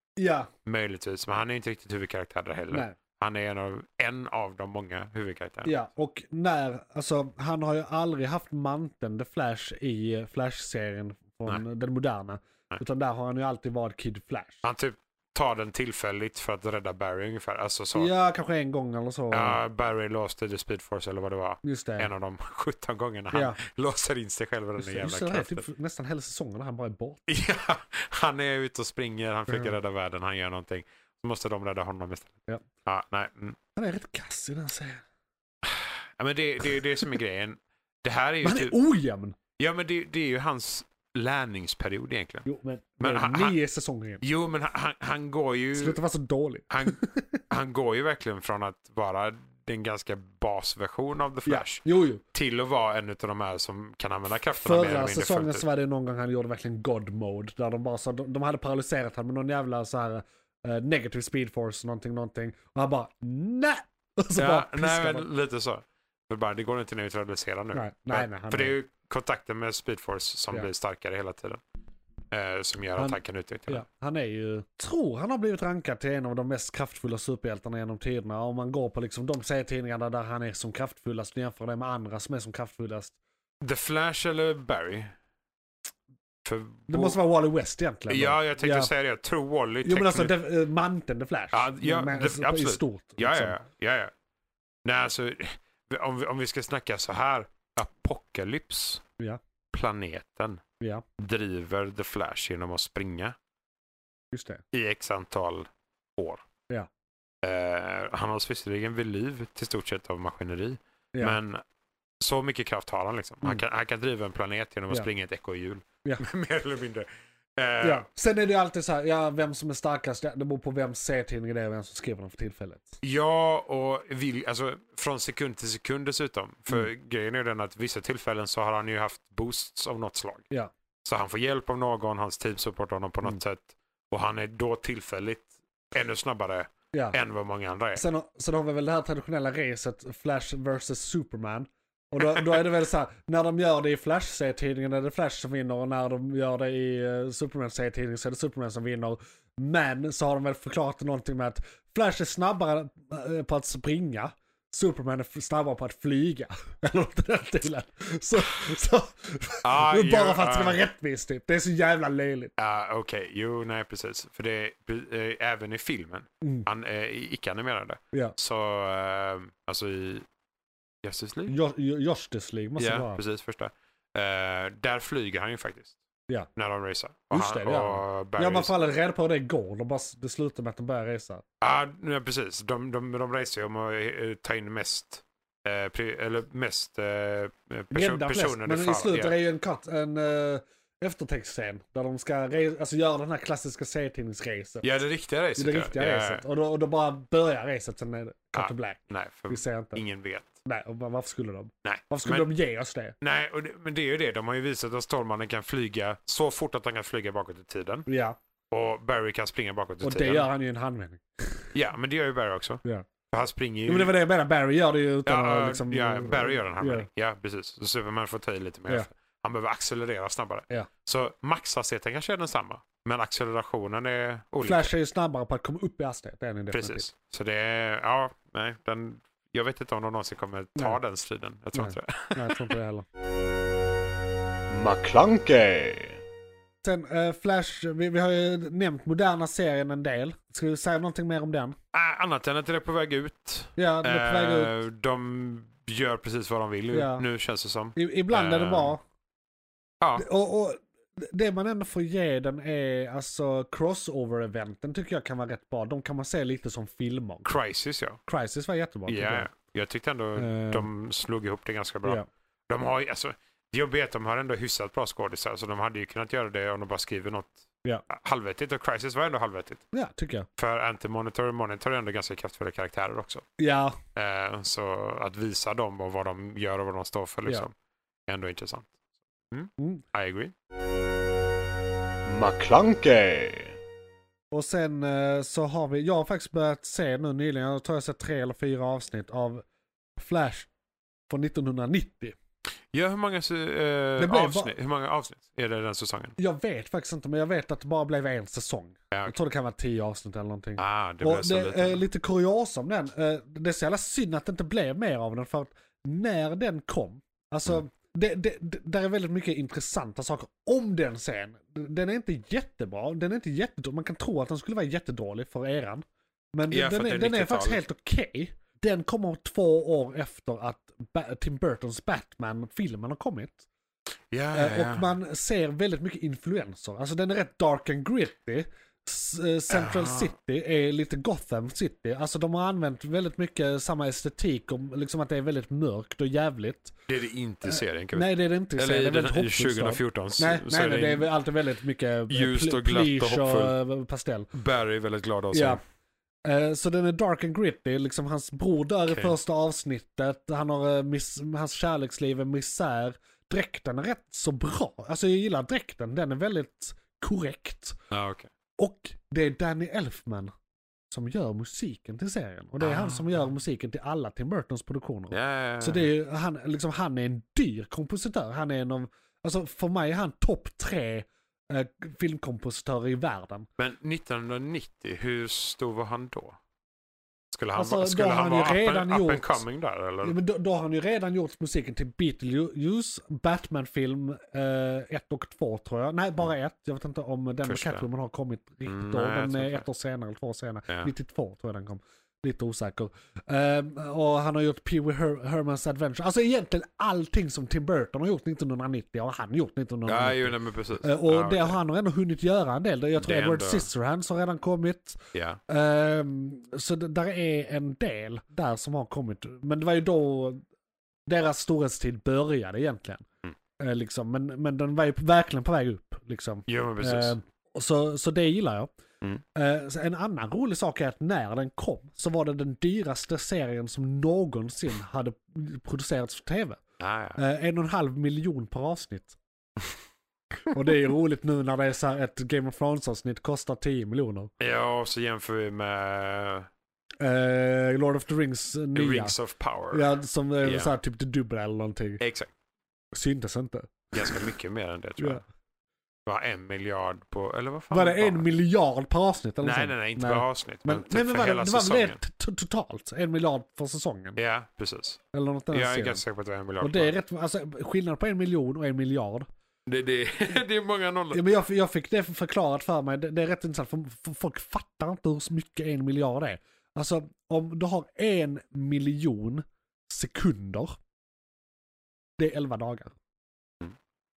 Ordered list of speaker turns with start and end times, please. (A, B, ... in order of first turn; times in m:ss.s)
0:00.2-0:00.5 A
0:00.6-0:05.7 B
0:02.7-0:03.0 A
0:05.6-0:14.6 A
0:14.6-0:18.1 B
0:18.0-0:19.6 A
0:19.3-0:25.6 B
0:21.6-0:22.1 A
0:23.3-0:23.6 A
0:24.8-0:27.2 A
0:27.3-0:33.6 B
0:33.8-0:35.0 A
0:35.6-0:38.7 B
0:38.4-0:39.4 A
0:39.6-0:42.5 B
0:42.4-0:44.2 A
0:43.0-0:43.6 B
0:44.2-0:46.0 B
0:45.8-0:47.4 A
0:46.7-0:47.0 B
0:47.5-0:55.6 B
0:51.4-0:52.2 A
0:54.6-1:05.3 A
1:04.4-1:11.6 B
1:07.7-1:08.8 A
1:12.3-1:13.8 B
1:13.0-1:23.2 A
1:23.6-1:25.1 B
1:26.4-1:27.2 B
1:26.9-1:28.9 A
1:28.1-1:30.3 B
1:29.8-1:33.6 A
1:31.5-1:34.1 B
1:34.8-1:39.0 B
1:39.7-1:40.6 B
1:40.8-1:41.0 A
1:41.2-1:43.3 B
1:44.3-1:44.6 A
1:44.7-1:46.4 B
1:47.4-1:51.6 B
1:52.2-1:58.1 B
1:57.8-2:03.0 A
2:03.0-2:10.5 B
2:11.0-2:18.0 B
2:16.9-2:17.2 A
2:18.0-2:42.5 A
2:39.6-2:40.8 B
2:42.6-2:50.3 B
2:51.0-2:51.6 B
2:51.5-2:53.2 A
2:52.8-2:56.0 B
2:56.6-2:58.7 B
2:57.3-3:01.4 A
3:01.6-3:09.4 B
3:07.9-3:14.9 A
3:14.8-3:16.4 B
3:15.6-3:20.0 A
3:18.6-3:20.6 B
3:20.6-3:23.2 A
3:21.8-3:22.5 B
3:23.2-3:28.1 B
3:28.1-3:28.4 A
3:28.7-3:30.5 B
3:30.0-3:31.7 A
3:31.7-3:34.1 B
3:33.9-3:37.1 A
3:35.3-3:44.9 B
3:44.6-3:47.1 A
3:46.7-3:52.7 B
3:51.7-3:53.0 A
3:54.7-3:56.2 C
3:56.8-4:01.8 A
4:01.9-4:09.0 B
4:03.8-4:04.7 A
4:06.9-4:07.3 A
4:08.0-4:09.0 A
4:10.0-4:10.3 B
4:10.2-4:17.5 A
4:17.4-4:18.2 B
4:18.3-4:19.5 A
4:19.1-4:29.8 B
4:20.4-4:20.9 A
4:29.9-4:30.5 A
4:30.6-4:33.4 B
4:33.6-4:34.0 A
4:34.1-4:37.7 B
4:38.3-4:39.0 B
4:39.5-4:40.5 B
4:39.8-4:40.0 A
4:42.3-4:43.8 C
4:44.5-4:49.6 A
4:50.2-4:50.7 A
4:51.3-4:52.4 A
4:52.9-4:56.4 B
4:54.2-4:54.7 A
4:56.4-5:23.7 A
4:59.1-4:59.4 B
5:00.8-5:02.0 B
5:16.7-5:17.8 B
5:24.3-5:25.1 B
5:24.5-5:36.9 A
5:29.7-5:30.3 B
5:37.1-5:41.3 B
5:37.6-5:44.5 A
5:42.3-5:43.8 B
5:44.5-5:45.8 B
5:45.5-5:45.8 A
5:46.4-5:58.0 A
5:49.1-5:49.3 B
5:58.1-5:58.5 B
5:58.8-6:00.5 A
6:01.1-6:13.7 A
6:02.8-6:03.2 B
6:05.3-6:06.1 B
6:13.8-6:16.6 B
6:17.5-6:20.4 B
6:17.8-6:19.6 A
6:20.2-6:50.6 A
6:27.6-6:28.0 B
6:28.8-6:29.8 B
6:40.0-6:41.8 B
6:43.1-6:43.9 B
6:45.3-6:45.6 B
6:51.3-6:53.3 A
6:53.8-6:58.9 A
6:56.7-6:57.3 B
6:59.6-7:06.8 A
7:07.0-7:07.4 B
7:07.4-7:09.4 A
7:10.7-7:14.5 A
7:14.6-7:16.7 B
7:17.2-7:19.3 A
7:19.0-7:20.1 B
7:19.9-7:22.2 A
7:20.6-7:20.9 B
7:22.2-7:22.5 B
7:23.1-7:24.4 A
7:24.1-7:25.4 B
7:26.3-7:28.5 B
7:27.9-7:34.4 A
7:29.6-7:32.2 B
7:34.4-7:35.2 B
7:35.3-7:36.2 A
7:35.7-7:37.1 B
7:36.8-7:39.5 A
7:39.9-7:41.5 B
7:41.3-7:51.0 A
7:52.4-7:53.2 A